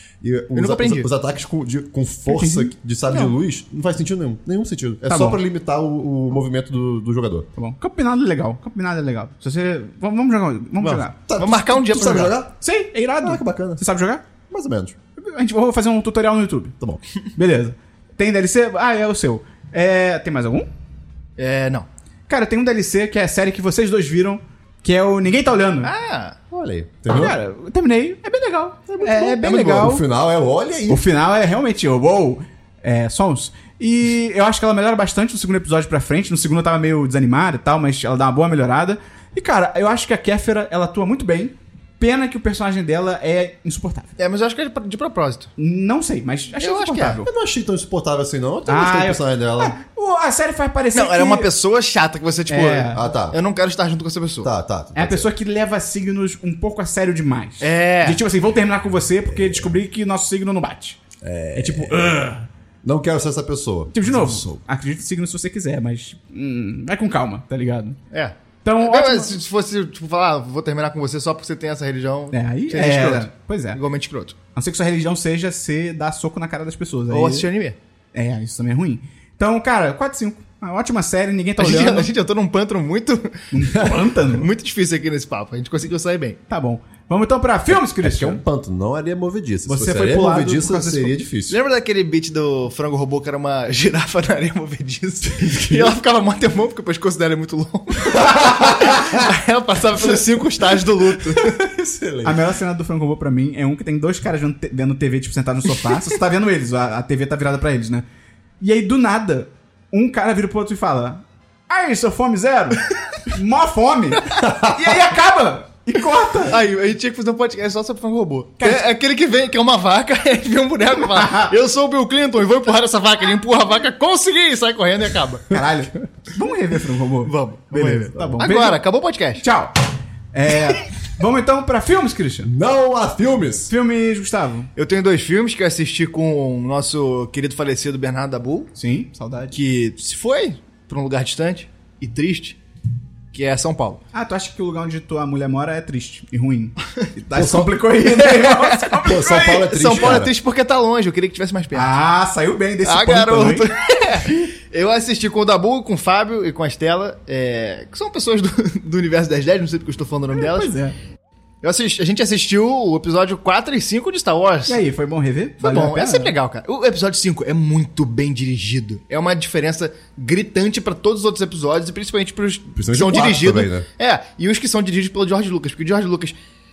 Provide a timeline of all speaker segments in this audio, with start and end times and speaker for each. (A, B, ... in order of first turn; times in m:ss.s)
0:00.2-0:07.5 A
0:00.5-0:01.1 B
0:02.3-0:02.7 C
0:05.1-0:05.4 C
0:07.6-0:11.2 C
0:10.8-0:12.5 A
0:11.4-0:12.3 B
0:11.9-0:14.2 C
0:13.2-0:13.8 A
0:14.5-0:15.0 A
0:15.2-0:16.7 C
0:17.4-0:20.7 C
0:21.4-0:21.9 B
0:22.3-0:25.9 C
0:25.8-0:26.4 B
0:26.5-0:27.4 A
0:27.1-0:30.0 C
0:28.9-0:31.0 A
0:30.9-0:44.1 C
0:44.2-0:45.5 B
0:45.6-0:47.3 C
0:46.6-0:47.2 B
0:47.2-0:49.7 A
0:48.7-0:51.5 C
0:50.9-0:54.5 B
0:52.5-0:53.0 C
0:52.9-0:53.4 A
0:54.4-0:55.3 A
0:54.9-1:01.0 C
0:57.6-0:58.2 B
0:59.2-0:59.8 A
1:01.2-1:02.2 A
1:01.5-1:02.5 C
1:02.8-1:04.6 A
1:03.9-1:08.0 C
1:08.1-1:14.4 B
1:08.6-1:09.3 C
1:12.3-1:13.8 C
1:14.5-1:17.4 C
1:17.1-1:17.8 B
1:18.1-1:22.1 C
1:21.6-1:26.4 B
1:23.5-1:24.5 C
1:26.5-1:28.4 C
1:27.7-1:31.6 A
1:29.7-1:31.1 C
1:31.5-1:41.6 B
1:35.3-1:35.9 A
1:38.8-1:39.2 A
1:41.4-1:42.4 A
1:42.2-1:48.0 C
1:48.6-1:56.6 C
1:56.4-2:05.5 B
2:01.2-2:01.5 C
2:05.5-2:08.8 C
2:07.2-2:09.4 B
2:09.4-2:09.7 C
2:10.3-2:12.5 C
2:12.4-2:13.7 A
2:13.7-2:14.7 C
2:14.8-2:18.7 B
2:18.7-2:19.6 C
2:19.5-2:22.6 B
2:23.3-2:24.0 B
2:24.1-2:30.0 C
2:27.3-2:27.8 A
2:28.0-2:32.0 B
2:29.0-2:30.3 A
2:31.7-2:33.7 C
2:32.8-2:40.7 B
2:40.3-2:40.9 C
2:41.6-2:44.8 B
2:44.7-2:46.3 C
2:45.6-2:56.3 B
2:52.8-2:53.9 A